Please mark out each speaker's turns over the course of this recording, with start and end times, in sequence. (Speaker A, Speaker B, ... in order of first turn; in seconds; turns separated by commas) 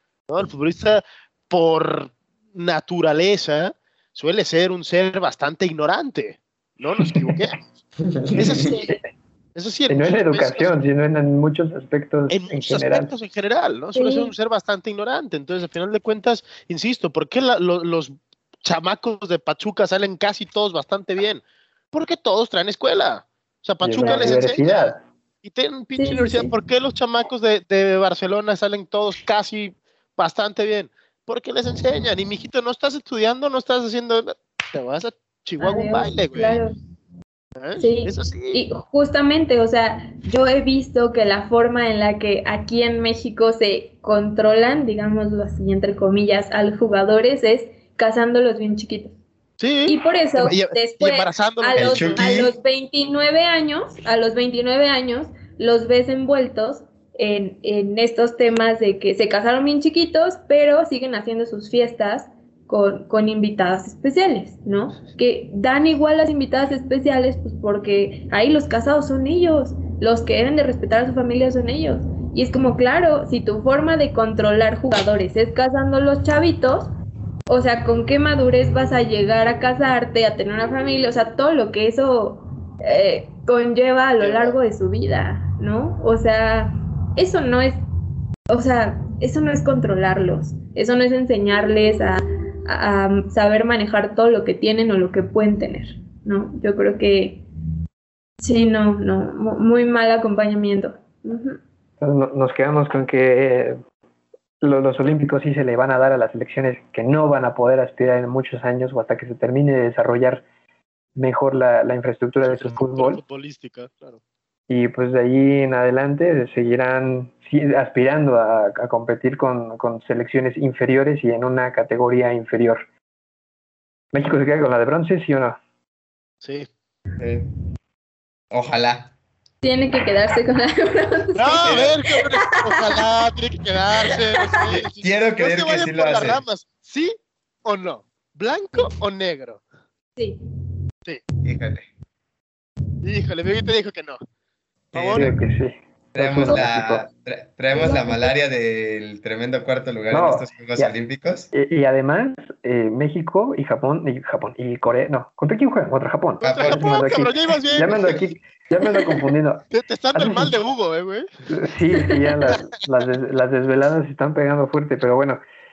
Speaker A: 0.3-7.6, Speaker B: 8.0-8.8, Speaker A: 8.4-9.0, Speaker A: 9.6-10.8, Speaker C: 9.9-13.1, Speaker A: 12.3-36.6, Speaker D: 13.9-14.3, Speaker C: 23.8-25.0, Speaker D: 24.0-24.6, Speaker D: 26.0-26.5, Speaker D: 35.6-36.8, Speaker A: 37.6-38.6, Speaker D: 37.8-49.2, Speaker A: 49.6-52.3, Speaker D: 49.9-76.9, Speaker B: 51.8-52.5, Speaker D: 77.5-87.8, Speaker A: 84.2-84.6, Speaker D: 88.5-97.4, Speaker D: 98.4-101.6, Speaker C: 102.0-103.8, Speaker C: 104.6-110.4, Speaker C: 111.2-113.2, Speaker A: 112.5-114.2, Speaker C: 114.7-122.8, Speaker C: 124.1-125.6, Speaker A: 126.4-126.7, Speaker B: 127.2-127.5, Speaker B: 128.5-129.1, Speaker D: 129.6-133.1, Speaker A: 131.4-139.6, Speaker B: 131.7-131.9, Speaker D: 134.1-134.5, Speaker B: 134.6-136.4, Speaker B: 141.4-141.8, Speaker A: 143.0-144.2, Speaker B: 144.9-145.3, Speaker A: 144.9-145.4, Speaker C: 145.2-147.1, Speaker B: 146.1-151.5, Speaker D: 147.7-148.3, Speaker C: 150.1-150.9, Speaker C: 151.5-160.6, Speaker B: 156.4-157.1, Speaker A: 156.4-158.2, Speaker A: 159.7-161.3, Speaker C: 161.5-165.4